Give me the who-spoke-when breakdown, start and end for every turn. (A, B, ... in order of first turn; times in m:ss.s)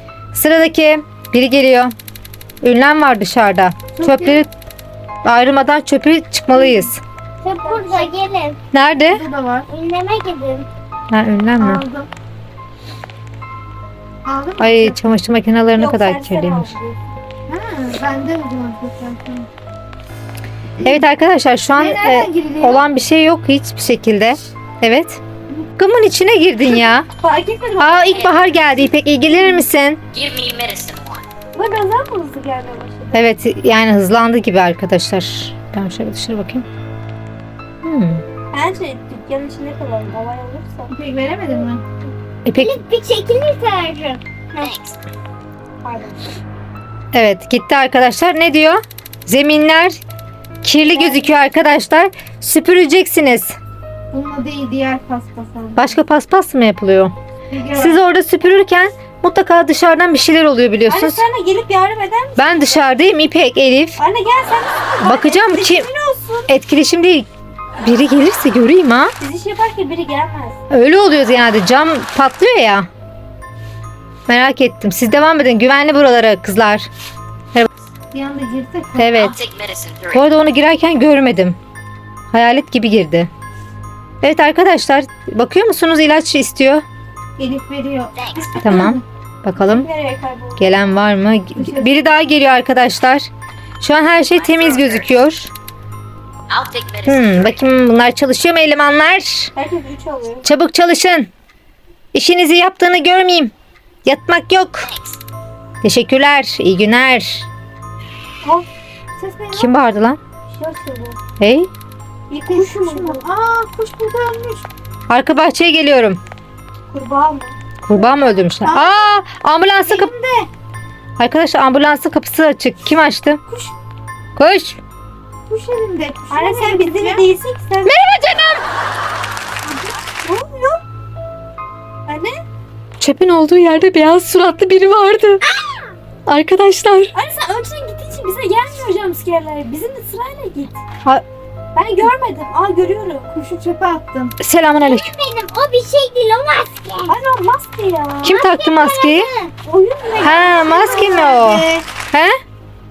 0:00.3-0:01.9 A
0:02.6-0:04.5 A
0:03.9-0:04.4 B
0:05.2-0:07.0 A
0:06.6-0:06.9 C
0:07.4-0:08.6 D
0:07.6-0:08.1 B
0:08.7-0:09.2 A
0:09.1-0:09.7 C
0:09.7-0:10.7 D
0:11.1-0:11.8 A
0:11.6-0:12.1 C
0:14.2-0:15.0 C
0:14.6-0:16.7 A
0:15.8-0:17.0 B
0:17.5-0:19.5 C
0:20.8-0:25.2 A
0:21.7-0:22.8 C
0:25.8-0:27.1 A
0:27.2-0:28.2 B
0:27.8-0:30.0 A
0:28.1-0:28.5 E
0:30.1-0:31.2 E
0:31.5-0:33.2 B
0:33.1-0:36.6 A
0:37.8-0:38.2 A
0:38.5-0:40.9 B
0:40.9-0:41.8 C
0:42.4-0:42.8 A
0:42.5-0:44.2 D
0:44.6-0:45.0 E
0:45.8-0:46.3 B
0:47.1-0:50.0 A
0:50.6-0:53.6 A
0:50.8-0:51.3 B
0:54.1-0:56.0 C
0:55.8-0:57.1 A
0:57.5-0:58.0 C
0:57.7-1:01.2 A
1:00.9-1:02.8 B
1:02.4-1:04.0 A
1:04.0-1:06.5 B
1:05.0-1:05.9 A
1:06.5-1:07.3 A
1:07.8-1:09.1 A
1:09.2-1:10.6 B
1:10.7-1:12.9 A
1:14.3-1:16.9 A
1:18.1-1:19.2 C
1:19.0-1:19.4 A
1:19.2-1:20.2 E
1:20.1-1:21.6 A
1:22.3-1:23.3 A
1:24.2-1:26.8 A
1:27.4-1:29.0 C
1:28.2-1:28.5 E
1:28.6-1:29.9 A
1:29.6-1:30.7 B
1:30.6-1:33.3 A
1:31.6-1:32.0 C
1:33.8-1:35.5 A
1:34.3-1:35.1 E
1:36.5-1:37.6 E
1:37.0-1:39.5 A
1:39.5-1:40.5 B
1:40.4-1:41.3 A
1:42.1-1:43.5 A
1:44.0-1:44.9 A
1:44.9-1:45.2 E
1:45.8-1:47.5 A
1:49.2-1:49.7 C
1:49.5-1:50.2 A
1:50.5-1:51.2 B
1:51.4-1:51.7 A
1:52.3-1:53.3 B
1:52.5-1:54.7 C
1:55.1-1:56.2 A
1:56.9-1:57.5 B
1:57.8-2:00.1 A
1:58.6-1:58.9 C
1:59.8-2:00.5 C
2:01.2-2:03.4 A
2:04.4-2:04.8 A
2:05.5-2:07.2 C
2:06.3-2:07.9 B
2:07.8-2:08.6 A
2:09.6-2:10.0 C
2:10.2-2:10.8 B
2:12.1-2:12.4 B
2:13.0-2:15.4 A
2:16.2-2:17.1 A
2:17.1-2:20.8 B
2:21.7-2:23.3 B
2:23.3-2:24.3 C
2:24.4-2:25.1 A
2:24.8-2:27.2 D
2:27.1-2:28.4 B
2:28.2-2:29.3 A
2:28.2-2:29.5 D
2:29.6-2:31.7 B
2:30.2-2:32.4 A
2:31.1-2:31.6 C